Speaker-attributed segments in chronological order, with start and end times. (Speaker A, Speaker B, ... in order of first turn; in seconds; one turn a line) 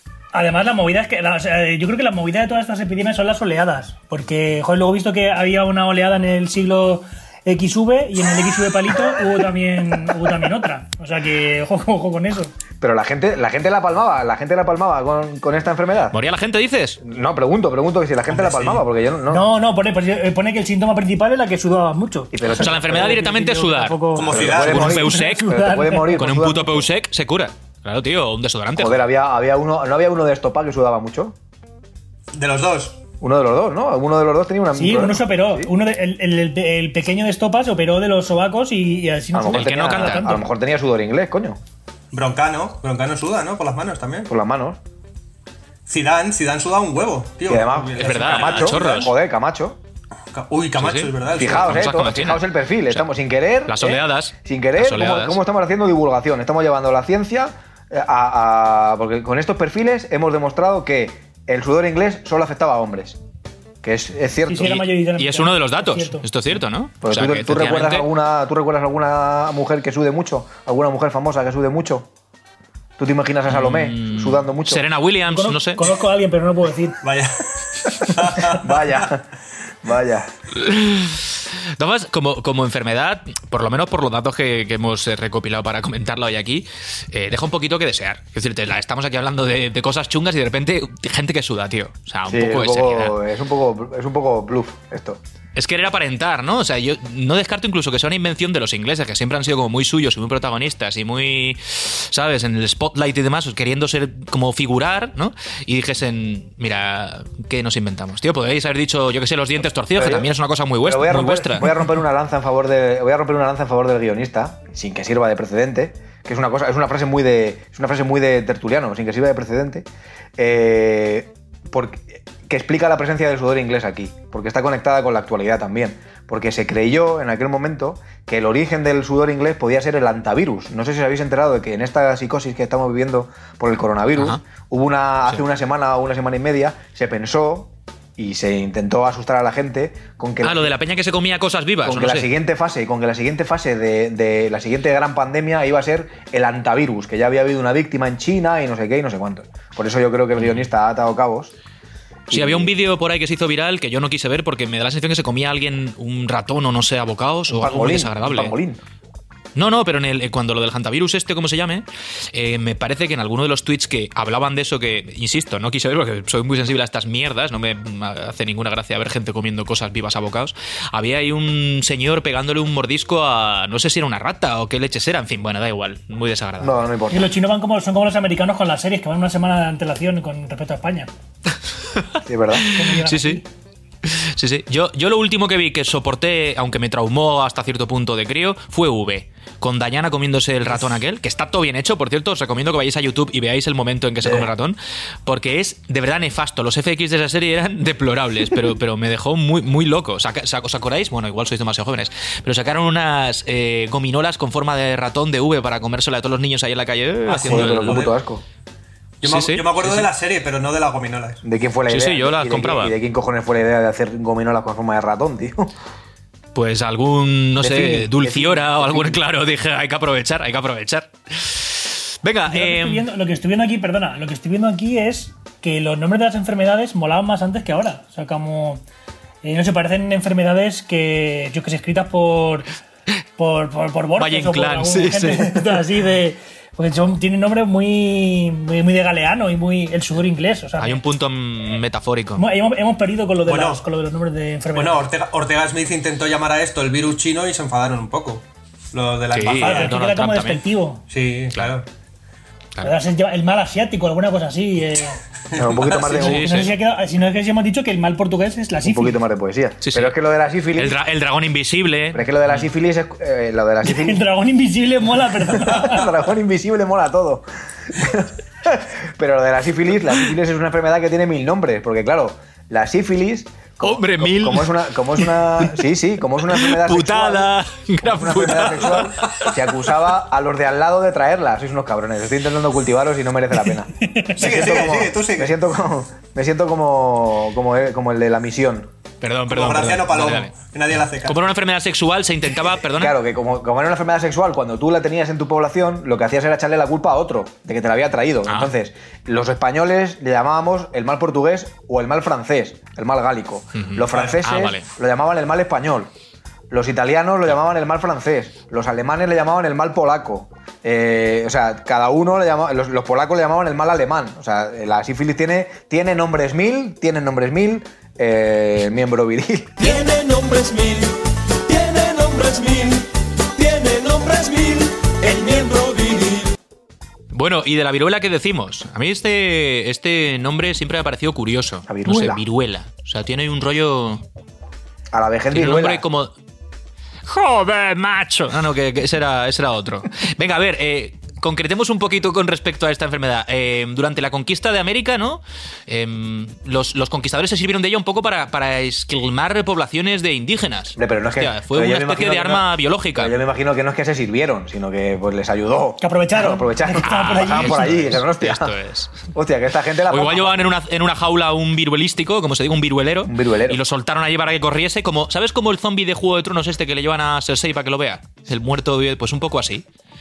Speaker A: 0.3-12.5
Speaker B: 12.8-16.2
Speaker C: 16.1-17.0
Speaker B: 17.0-19.5
Speaker D: 18.3-18.9
Speaker A: 19.3-26.2
Speaker B: 22.3-23.2
Speaker C: 22.5-29.1
Speaker D: 24.1-25.0
Speaker B: 24.3-26.9
Speaker B: 28.8-31.4
Speaker D: 32.3-33.0
Speaker B: 33.2-35.7
Speaker A: 34.7-40.5
Speaker B: 39.3-41.6
Speaker C: 39.5-40.3
Speaker D: 42.1-44.3
Speaker B: 44.3-44.8
Speaker D: 45.9-49.1
Speaker B: 47.5-49.8
Speaker C: 48.0-49.1
Speaker D: 50.3-51.8
Speaker C: 50.8-53.0
Speaker B: 51.3-63.2
Speaker C: 53.7-55.4
Speaker B: 63.8-64.8
Speaker A: 64.5-66.2
Speaker C: 64.6-68.1
Speaker B: 67.0-72.1
Speaker B: 73.0-74.8
Speaker C: 73.5-75.9
Speaker A: 75.3-77.0
Speaker D: 77.0-79.1
Speaker B: 78.5-79.3
Speaker B: 79.8-80.3
Speaker C: 80.5-93.2
Speaker B: 92.3-95.2
Speaker C: 95.5-111.7
Speaker B: 110.0-110.3
Speaker B: 110.8-119.9
Speaker B: 120.4-140.7
Speaker C: 134.2-134.4
Speaker C: 140.4-142.3
Speaker B: 141.8-151.5
Speaker C: 150.4-150.6
Speaker B: 152.3-152.7
Speaker C: 152.3-158.6
Speaker B: 157.5-158.8
Speaker C: 159.6-176.8
Speaker B: 176.6-177.3
Speaker A: 177.1-181.1
Speaker C: 181.9-183.4
Speaker B: 182.2-182.7
Speaker A: 182.7-183.5
Speaker C: 184.1-208.1
Speaker B: 207.3-208.4
Speaker D: 207.3-208.2
Speaker D: 209.2-211.4
Speaker C: 209.2-210.1
Speaker B: 211.4-215.8
Speaker C: 211.9-213.0
Speaker C: 216.5-223.0
Speaker B: 217.6-219.2
Speaker A: 222.5-228.8
Speaker A: 229.4-232.7
Speaker A: 233.4-241.0
Speaker C: 234.2-235.8
Speaker C: 240.8-242.4
Speaker A: 242.4-245.1
Speaker D: 243.5-243.8
Speaker D: 244.7-250.0
Speaker C: 249.3-250.6
Speaker A: 249.6-251.1
Speaker D: 251.1-251.9
Speaker A: 252.8-255.2
Speaker D: 255.5-256.2
Speaker B: 255.6-256.6
Speaker A: 256.1-259.2
Speaker C: 256.2-256.7
Speaker B: 258.8-261.0
Speaker C: 259.8-260.1
Speaker C: 260.8-262.7
Speaker B: 262.1-264.2
Speaker A: 263.8-266.1
Speaker B: 265.6-288.9
Speaker C: 273.8-275.7
Speaker C: 276.5-279.5
Speaker A: 284.0-284.5
Speaker D: 284.4-285.6
Speaker C: 289.2-290.5
Speaker D: 289.5-291.4
Speaker C: 291.2-293.2
Speaker B: 292.9-306.1
Speaker C: 298.5-298.7
Speaker C: 303.8-304.9
Speaker D: 304.1-304.4
Speaker B: 306.7-320.0
Speaker E: 319.8-326.5
Speaker C: 327.3-334.2
Speaker B: 331.9-332.4
Speaker B: 335.1-336.1
Speaker C: 335.5-336.3
Speaker C: 337.3-353.3
Speaker B: 350.9-358.7
Speaker A: 356.0-358.2
Speaker C: 357.0-359.2
Speaker B: 359.3-360.6
Speaker C: 360.1-369.9
Speaker B: 363.3-363.8